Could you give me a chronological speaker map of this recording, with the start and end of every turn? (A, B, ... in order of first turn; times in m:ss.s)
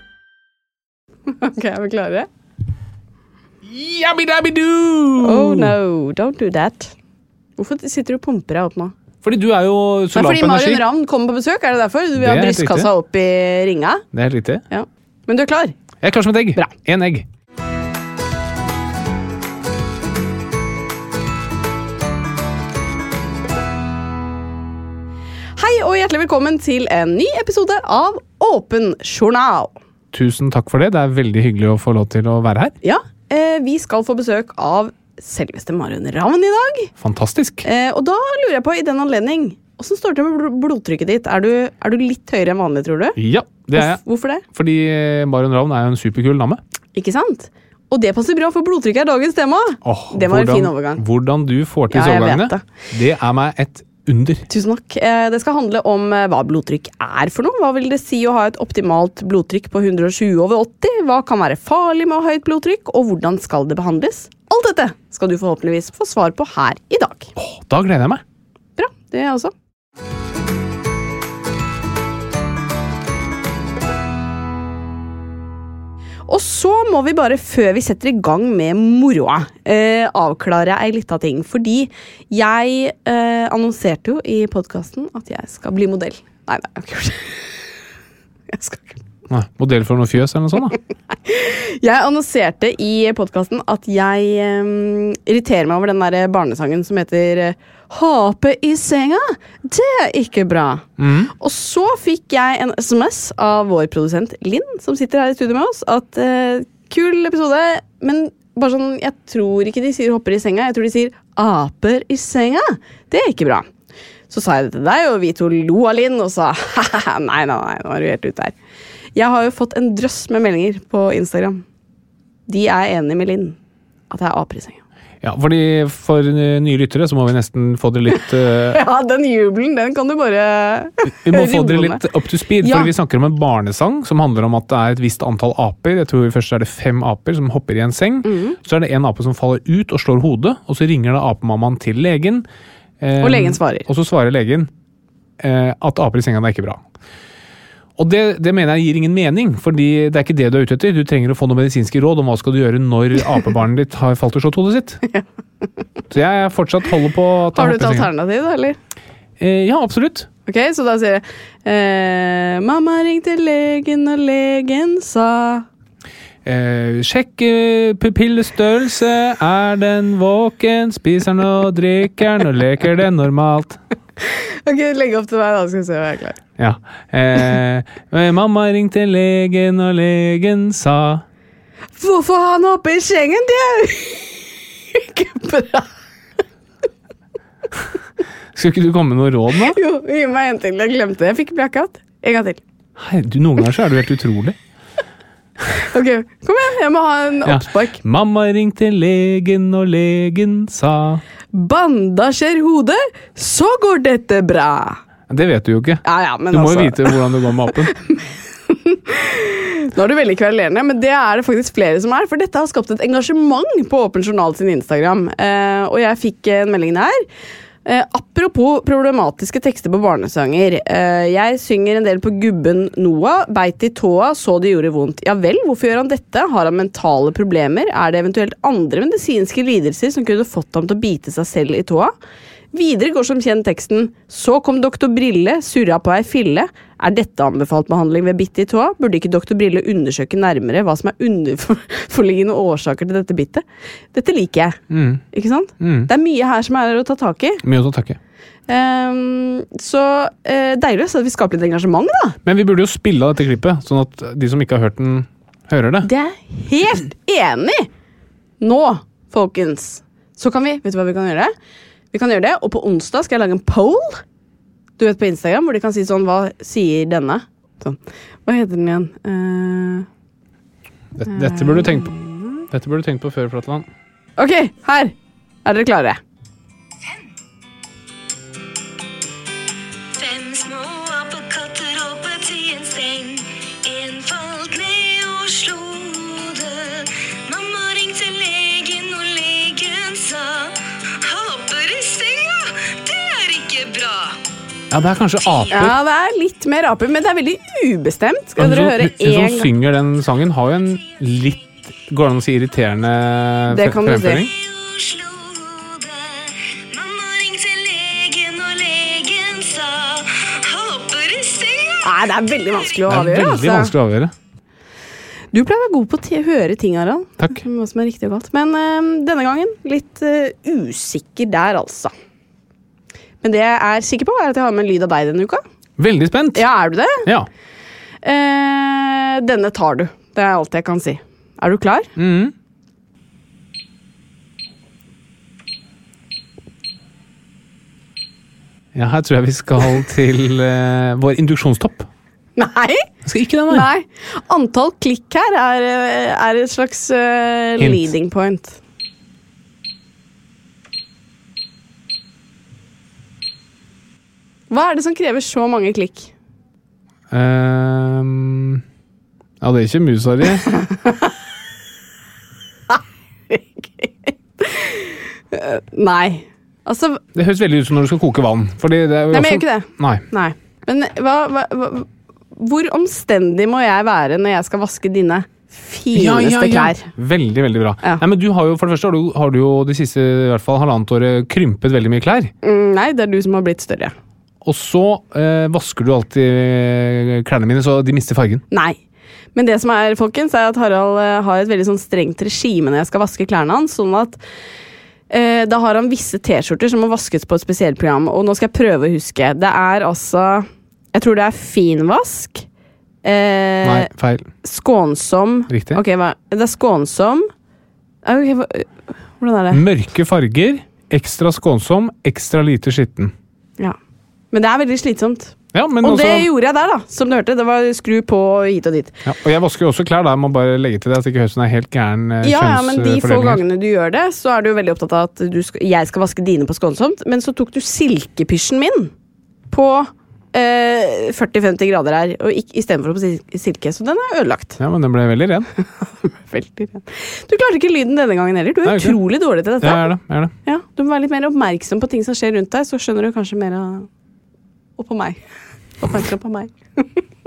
0:01.3-0:02.3 A
0:03.6-0:05.8 B
0:05.2-0:06.9 A
0:07.6-0:08.9 A
0:09.2-0:10.8 B
0:10.2-0:14.0 A
0:12.2-0:12.9 B
0:14.1-0:14.6 B
0:14.7-0:15.8 A
0:16.0-0:17.3 B
0:25.6-0:29.8 A
0:30.1-0:32.8 B
0:32.8-0:36.9 A
0:37.0-0:37.7 B
0:37.6-0:43.2 A
0:43.2-0:46.6 B
0:43.8-0:44.4 A
0:47.0-0:51.0 A
0:49.8-0:54.5 B
0:51.9-0:52.6 A
0:54.5-1:07.3 A
1:07.4-1:08.2 B
1:08.8-1:09.5 A
1:16.3-1:27.5 A
1:28.5-1:29.0 A
1:29.3-1:30.8 B
1:31.1-1:53.7 A
1:41.0-1:41.3 B
1:54.3-1:58.6 A
1:59.2-2:01.6 A
2:02.5-2:03.6 A
2:04.1-2:04.8 A
2:05.2-2:08.8 B
2:08.5-2:12.0 A
2:11.1-2:22.5 B
2:12.6-2:12.9 A
2:18.2-2:18.6 A
2:23.0-2:24.7 B
2:23.2-2:23.9 A
2:25.4-2:26.8 B
2:28.0-2:35.0 B
2:36.1-2:38.1 B
2:37.6-2:38.8 A
2:39.4-2:40.3 B
2:40.5-2:45.7 A
2:46.4-2:53.8 B
2:54.2-2:56.4 A
2:56.6-3:01.2 B
3:02.0-3:05.9 A
3:08.6-3:09.8 B
3:09.7-3:12.6 A
3:13.0-3:14.6 B
3:15.7-3:18.0 A
3:17.4-3:21.2 B
3:21.5-3:25.0 A
3:25.3-3:27.9 B
3:26.0-3:37.2 A
3:37.8-3:52.2 A
3:52.7-4:07.6 A
4:04.9-4:05.2 B
4:05.8-4:06.1 B
4:07.6-4:08.2 B
4:08.7-4:12.4 A
4:12.4-4:16.1 B
4:16.0-4:17.9 A
4:18.6-4:21.5 A
4:22.1-4:24.2 A
4:25.0-4:30.1 A
4:31.2-4:32.1 B
4:31.3-4:32.4 A
4:32.7-4:33.9 B
4:34.4-4:35.1 A
4:35.6-4:36.2 A
4:40.1-4:54.4 C
4:54.9-4:56.0 B
4:55.7-4:59.7 A
4:58.6-5:04.5 B
5:03.7-5:04.4 A
5:04.5-5:12.1 C
5:12.0-5:13.9 A
5:13.1-5:14.3 B
5:15.5-5:22.1 A
5:23.4-5:25.6 A
5:26.0-5:26.6 B
5:26.6-5:27.3 A
5:27.2-5:27.5 B
5:28.2-5:32.1 A
5:32.2-5:32.5 B
5:38.9-5:42.1 B
5:42.6-5:43.1 A
5:43.2-5:43.9 B
5:43.7-5:48.8 A
5:47.8-5:48.1 B
5:54.7-5:56.3 A
5:57.3-5:58.8 B
5:59.6-6:00.7 B
6:03.5-6:07.2 A
6:07.4-6:10.3 B
6:09.3-6:17.1 A
6:16.1-6:22.5 B
6:22.6-6:24.2 A
6:24.6-6:28.6 B
6:28.7-6:29.0 A
6:29.6-6:34.4 A
6:35.3-6:42.7 A
6:43.2-6:44.1 A
6:43.8-6:44.5 B
6:44.6-6:47.5 A
6:45.7-6:46.0 B
6:48.2-6:49.8 A
6:49.7-6:53.3 B
6:54.5-6:59.2 A
6:55.7-6:56.5 B
6:59.2-7:03.6 B
7:02.4-7:09.1 A
7:09.7-7:14.8 A
7:14.8-7:15.7 B
7:16.0-7:20.1 A
7:18.8-7:19.2 B
7:19.8-7:20.5 B
7:20.6-7:24.1 A
7:25.0-7:25.4 A
7:26.0-7:27.2 A